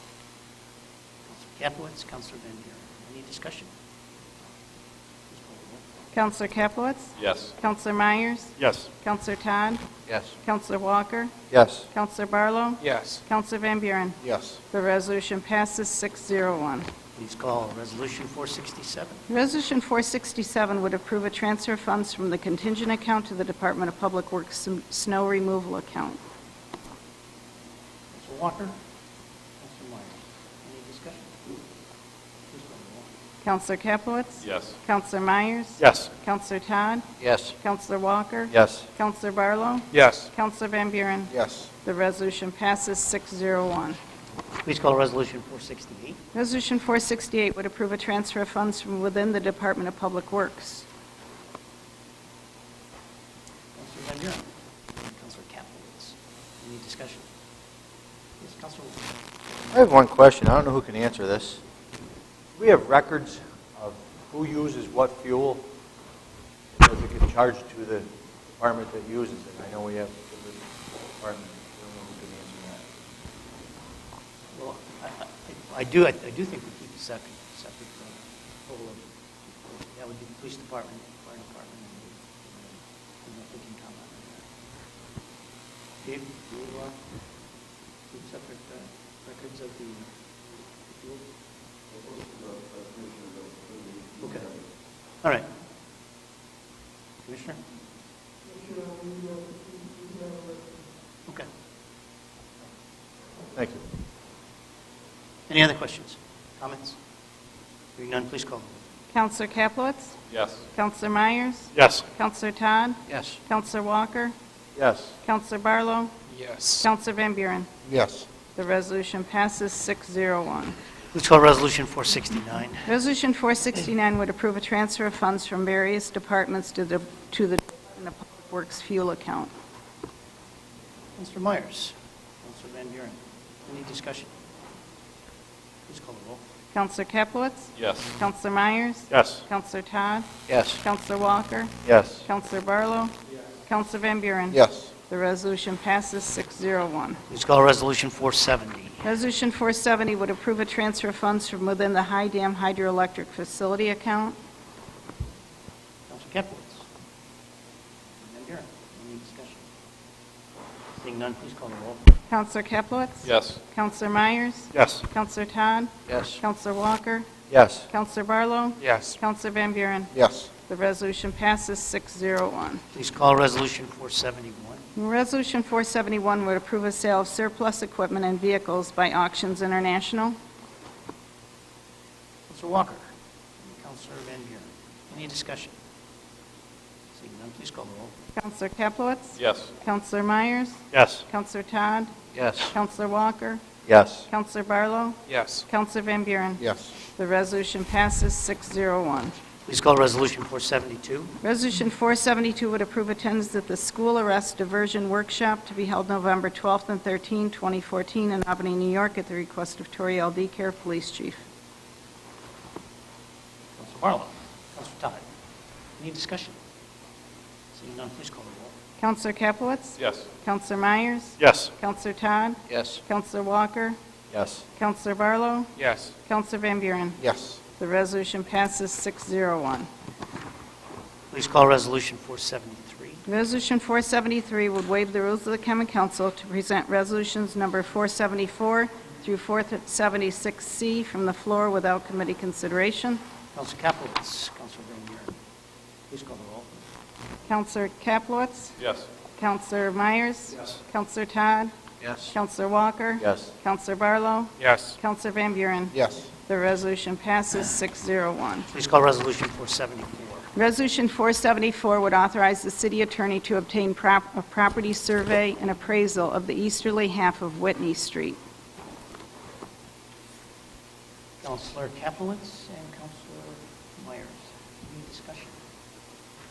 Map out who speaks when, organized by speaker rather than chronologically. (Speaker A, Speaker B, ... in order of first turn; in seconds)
Speaker A: 1.3-3.6, 5.4-5.8, 17.1-19.2, 28.1-28.8, 29.6-31.5, 32.5-33.1, 44.6-46.2, 53.8-54.4, 55.0-56.0, 56.6-57.2, 58.4-59.0, 74.5-77.8, 80.0-82.1, 83.3-83.9, 86.1-86.9, 88.2-90.0, 97.3-97.5, 105.5-106.9, 108.0-108.7, 121.1-122.8, 131.2-131.9, 132.4-134.3, 135.9-136.4, 147.3-149.0, 156.1-156.8, 158.2-159.6, 161.0-162.1, 172.9-174.8, 182.5-183.0, 183.7-185.7, 187.1-188.1, 199.7-201.3, 213.8-215.2, 216.0-216.5, 217.7-218.7, 231.3-233.2, 243.5-245.3, 246.1-246.7, 258.7-260.5, 271.4-275.5
Speaker B: 6.1-9.8, 10.4-11.3, 11.9-16.9, 19.3-26.2, 33.4-37.0, 37.6-44.0, 46.3-50.9, 109.1-110.2, 110.7-114.3, 115.2-116.1, 116.8-117.7, 118.5-120.8, 122.8-129.5, 136.7-147.2, 149.0-154.4, 162.3-167.3, 167.9-172.8, 174.9-180.3, 188.3-192.1, 192.6-193.6, 194.3-199.3, 201.4-211.4, 219.0-224.0, 224.8-229.9, 233.2-243.2, 247.5-248.8, 249.3-251.7, 252.2-258.7, 260.5-268.4
Speaker C: 7.2-7.5, 12.8-13.2, 34.4-34.7, 39.9-40.3, 110.3-110.6, 116.3-116.9, 137.8-138.1, 163.2-163.6, 168.8-169.2, 189.4-189.7, 195.3-195.7, 220.0-220.2, 225.8-226.1, 248.8-249.1, 254.6-255.0
Speaker D: 10.1-10.3, 11.5-11.9, 37.2-37.5, 38.5-38.9, 59.7-61.6, 62.5-65.7, 66.8-68.1, 68.6-70.7, 71.2-72.9, 103.5-103.8, 113.1-113.4, 114.7-115.1, 117.9-118.2, 139.1-139.4, 140.5-140.8, 141.8-142.2, 164.7-165.0, 166.1-166.4, 167.5-167.9, 190.9-191.2, 192.3-192.7, 193.9-194.3, 221.4-221.7, 222.7-223.0, 224.3-224.6, 252.0-252.3, 253.2-253.5